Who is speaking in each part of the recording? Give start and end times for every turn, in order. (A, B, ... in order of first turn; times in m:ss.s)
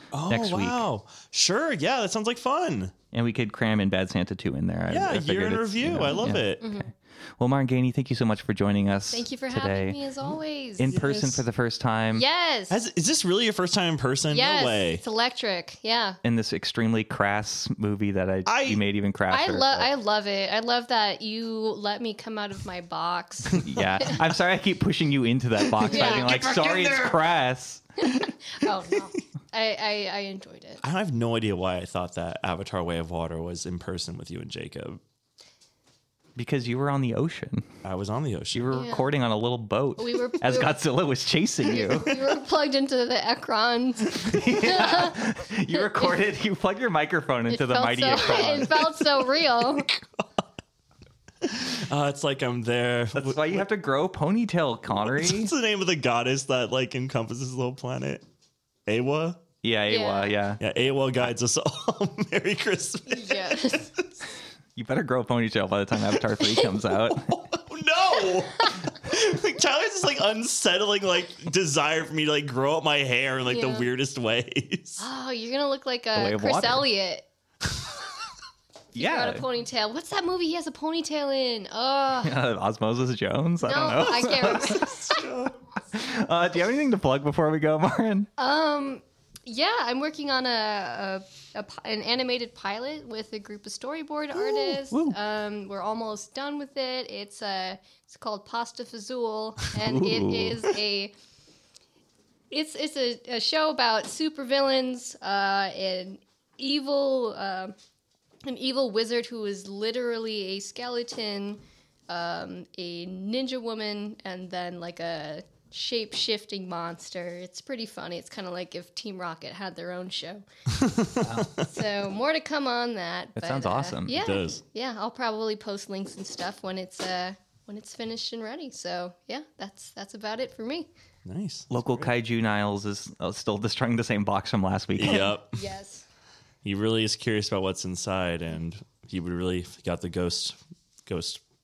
0:00.1-0:02.9 A
0:00.3-0:00.8 B
0:03.1-0:06.6 B
0:04.9-0:06.7 A
0:06.6-0:06.9 C
0:07.4-0:10.0 B
0:09.1-0:11.0 C
0:10.8-0:12.2 B
0:10.8-0:11.4 A
0:12.1-0:12.8 C
0:12.7-0:15.0 A
0:14.3-0:16.2 C
0:16.2-0:19.9 B
0:18.5-0:18.8 A
0:19.3-0:24.1 C
0:23.5-0:24.1 A
0:23.6-0:27.8 B
0:25.8-0:26.4 C
0:25.8-0:27.2 A
0:28.0-0:30.8 C
0:30.8-0:35.0 A
0:36.4-0:37.7 B
0:37.8-0:38.8 A
0:38.5-0:42.1 B
0:38.7-0:39.1 C
0:40.0-0:40.8 C
0:41.6-0:45.2 C
0:44.2-0:49.0 B
0:45.7-0:46.1 C
0:47.5-0:49.9 C
0:49.5-0:50.4 A
0:51.4-0:53.7 A
0:53.2-0:55.5 B
0:54.9-0:58.2 A
0:58.9-0:59.4 A
0:59.6-1:00.6 B
0:59.9-1:00.4 C
1:00.6-1:04.1 A
1:03.1-1:03.9 C
1:04.8-1:07.4 B
1:06.9-1:15.0 A
1:13.5-1:13.9 C
1:15.0-1:17.3 C
1:16.2-1:16.9 B
1:19.0-1:19.4 B
1:19.0-1:22.4 C
1:22.2-1:25.2 B
1:23.6-1:25.3 C
1:24.6-1:25.6 A
1:25.9-1:28.3 B
1:28.4-1:41.1 C
1:34.4-1:35.2 B
1:39.8-1:40.7 B
1:42.5-1:47.7 C
1:48.4-2:00.4 C
2:00.7-2:01.7 A
2:01.2-2:01.5 B
2:01.5-2:10.9 C
2:03.4-2:04.2 B
2:04.1-2:04.6 A
2:11.2-2:12.1 A
2:11.7-2:15.4 B
2:15.0-2:15.6 A
2:15.1-2:16.0 C
2:16.6-2:21.4 A